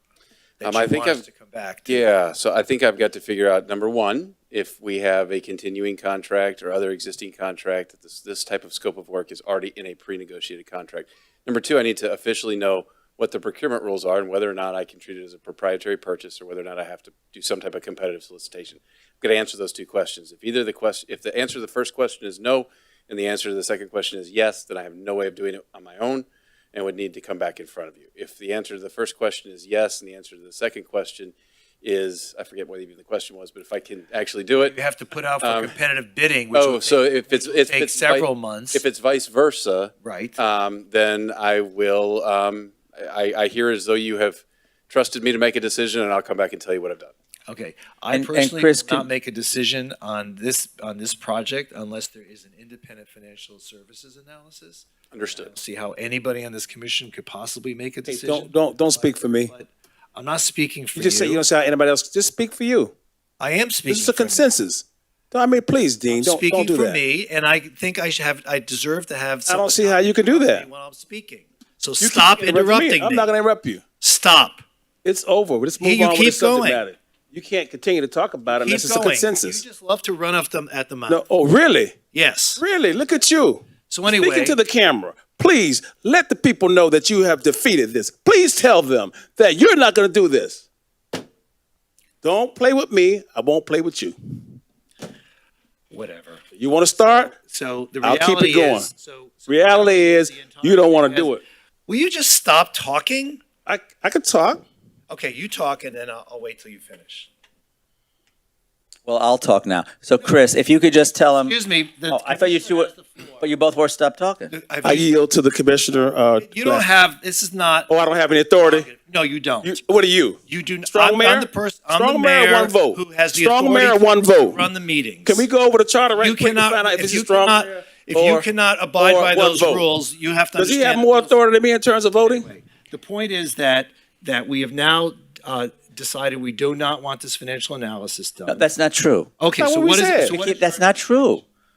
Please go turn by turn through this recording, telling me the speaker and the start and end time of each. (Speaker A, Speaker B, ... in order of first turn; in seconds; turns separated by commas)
Speaker A: 0.6-2.1, Speaker B: 0.6-1.2, Speaker B: 1.9-34.8, Speaker A: 34.6-38.8, Speaker B: 35.4-35.8, Speaker B: 36.5-47.1, Speaker A: 40.0-40.4, Speaker A: 47.5-61.5, Speaker C: 48.1-49.1, Speaker B: 55.1-55.5, Speaker D: 58.1-59.5, Speaker D: 61.0-62.9, Speaker A: 63.4-64.5, Speaker D: 63.9-67.0, Speaker A: 66.1-73.3, Speaker D: 69.5-70.7, Speaker D: 72.0-73.8, Speaker A: 74.0-74.6, Speaker D: 75.0-79.6, Speaker A: 75.8-76.8, Speaker A: 78.5-81.2, Speaker D: 81.1-82.0, Speaker A: 82.1-82.6, Speaker D: 82.6-90.7, Speaker A: 83.9-84.6, Speaker D: 92.2-94.5, Speaker A: 95.9-96.4, Speaker D: 96.6-97.3, Speaker A: 97.0-103.4, Speaker D: 98.0-98.9, Speaker D: 99.5-101.4, Speaker D: 103.7-104.6, Speaker A: 105.1-107.3, Speaker C: 109.0-111.6, Speaker A: 111.5-113.5, Speaker C: 112.1-114.5, Speaker D: 113.8-114.1, Speaker A: 114.5-115.2, Speaker D: 114.8-116.9, Speaker A: 116.4-117.9, Speaker D: 117.9-118.9, Speaker A: 118.6-119.8, Speaker D: 119.6-124.7, Speaker A: 120.5-125.5, Speaker D: 125.2-128.3, Speaker A: 126.1-131.4, Speaker D: 129.0-129.9, Speaker D: 130.6-132.5, Speaker A: 132.2-138.7, Speaker C: 138.5-139.4, Speaker A: 139.4-141.4, Speaker D: 139.6-140.4, Speaker C: 140.2-141.4